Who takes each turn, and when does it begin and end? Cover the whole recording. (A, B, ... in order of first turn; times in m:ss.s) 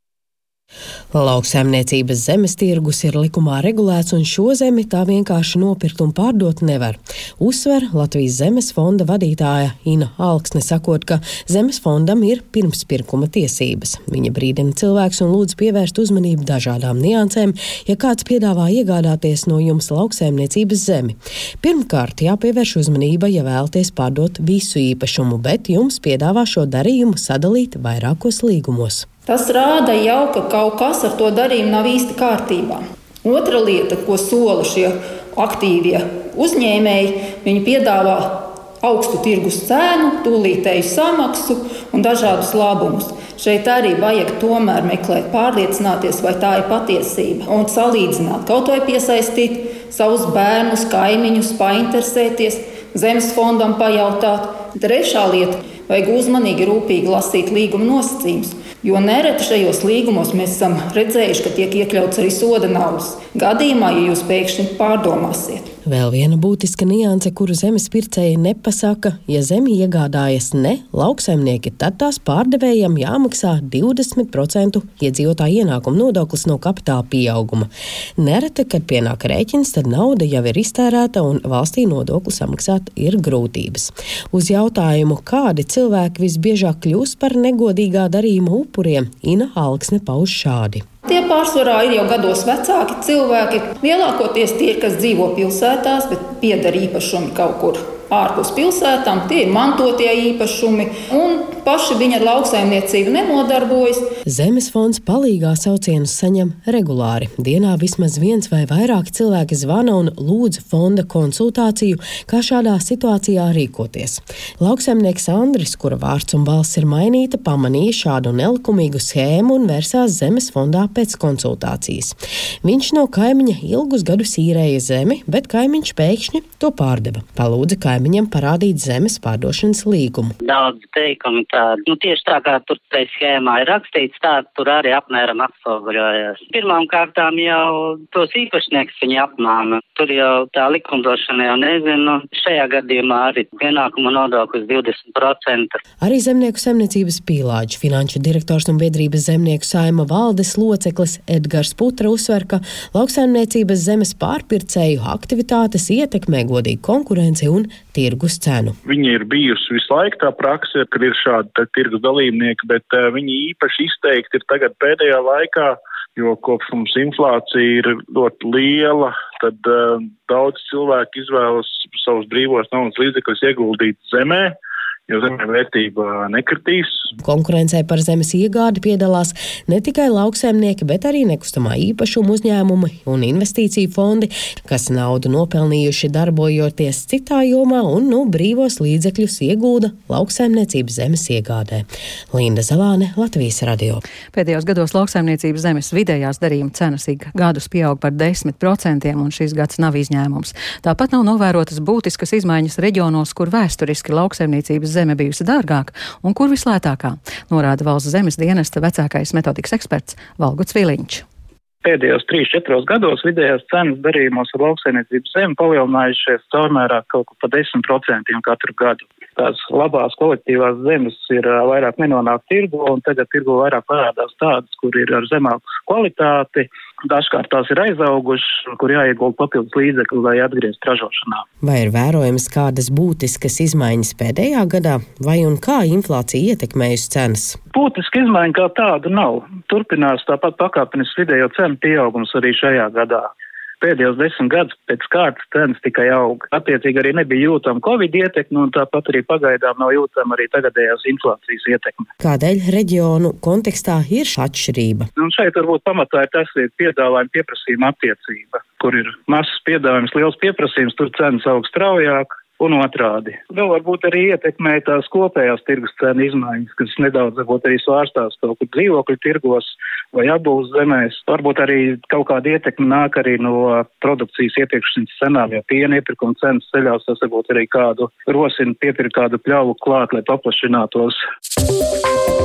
0:01.1-0:29.1 A
0:29.3-1:05.7 B
1:05.8-1:30.8 A
1:31.0-1:44.1 B
1:44.2-2:10.3 A
2:10.4-2:25.8 C
2:26.0-2:38.8 A
2:38.8-2:54.6 D
2:55.1-2:57.1 D
2:57.2-3:14.0 A
3:14.3-3:31.2 E
3:31.8-3:51.4 F
3:51.6-3:57.6 A
3:57.7-4:03.3 F
4:03.8-4:12.1 F
4:12.2-4:15.1 A
4:15.2-4:41.2 F